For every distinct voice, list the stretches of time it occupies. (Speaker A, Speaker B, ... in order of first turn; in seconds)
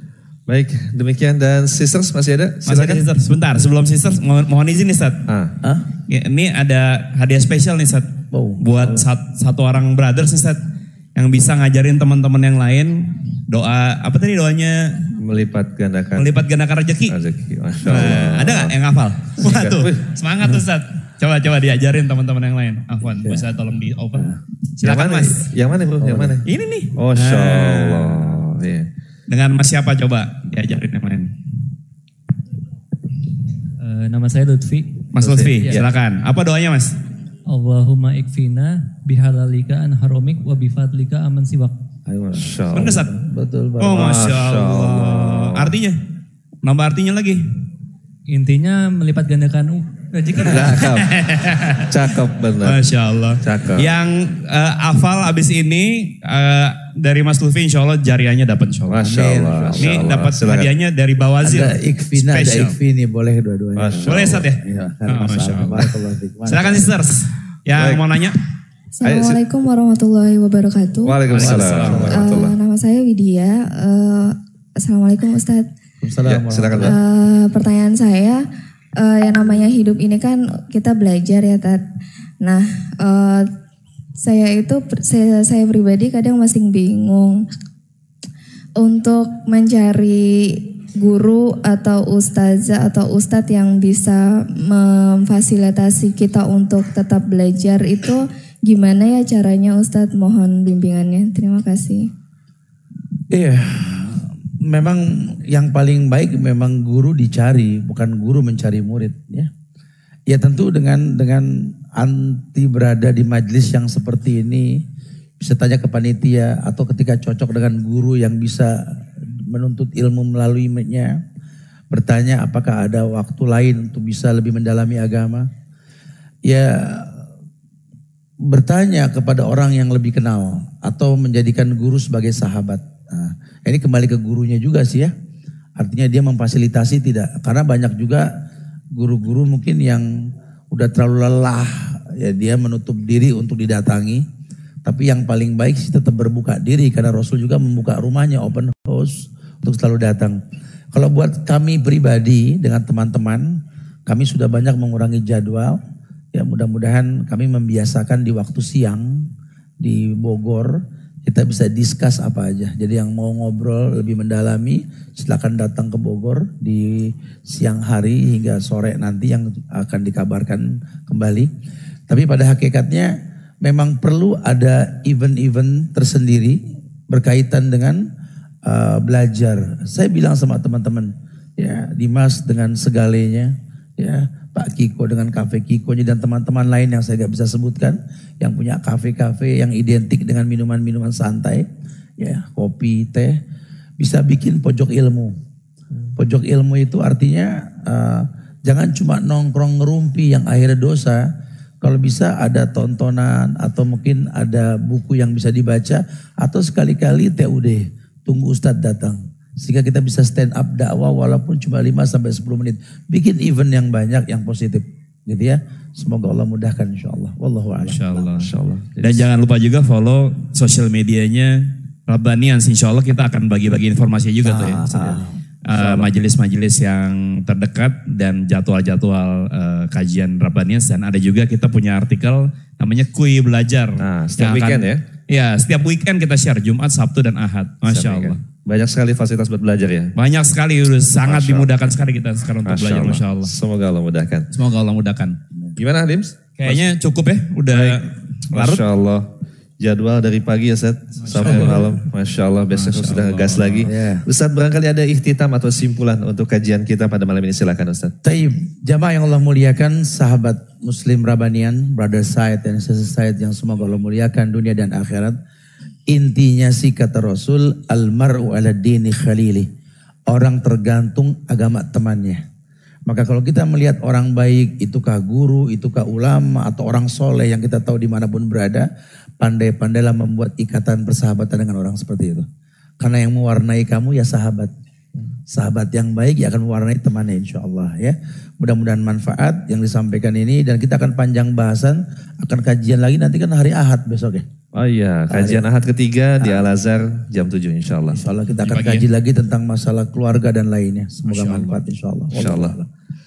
Speaker A: 0.5-3.1, 5.3-5.5, 15.2-16.5, 17.1-18.8, 19.4-20.1, 24.8-28.9, 35.6-35.9, 42.3-43.1, 43.9-45.8, 50.4-51.2, 51.8-54.0, 58.9-60.7, 63.8-64.5, 67.7-68.1, 69.0-69.5, 71.0-72.6, 76.2-77.0, 218.4-219.3, 225.7-226.2, 234.0-235.0, 237.9-240.2, 241.2-241.7, 242.6-244.5, 245.8-246.9, 247.7-258.2, 294.7-298.2, 302.3-302.8
Speaker B: 2.6-5.2, 6.1-10.6, 11.2-15.1, 16.2-17.2, 17.8-24.3, 24.8-25.5, 26.4-28.4, 29.3-31.3, 35.1-37.0, 42.7-43.2, 43.8-46.0, 46.6-47.5, 50.5-59.0, 59.8-62.8, 64.1-68.4, 71.2-72.2, 217.8-218.5, 219.0-238.4, 240.2-243.5, 244.5-245.4, 246.6-248.8, 251.2-252.0, 252.7-253.9, 298.6-299.1, 301.2-301.8
Speaker C: 5.6-5.9, 8.3-8.6, 23.2-23.5, 26.0-26.4, 35.2-35.5, 42.1-44.1, 59.0-60.1, 61.4-67.0, 71.4-72.2, 76.0-77.0, 103.3-109.5, 110.3-114.8, 115.4-118.7, 119.5-121.2, 121.9-125.5, 126.5-127.2, 128.5-135.1, 135.8-138.3, 138.9-144.2, 144.8-150.4, 150.9-155.8, 156.3-159.3, 159.8-171.5, 172.1-178.0, 178.7-191.7, 192.2-193.4, 194.0-195.3, 196.2-201.2, 201.8-218.3, 224.4-225.4, 251.4-251.8, 253.9-254.2, 258.2-265.4, 266.1-269.7, 270.3-272.4, 273.1-278.9, 279.4-282.5, 283.0-284.7, 285.5-294.4, 295.3-295.6, 296.4-296.7, 298.1-302.9
Speaker D: 33.8-35.8, 37.5-41.8, 48.3-51.0
Speaker E: 69.0-71.3, 72.0-75.7, 76.8-78.5, 79.0-81.8, 82.4-83.5, 84.2-87.5, 88.8-102.1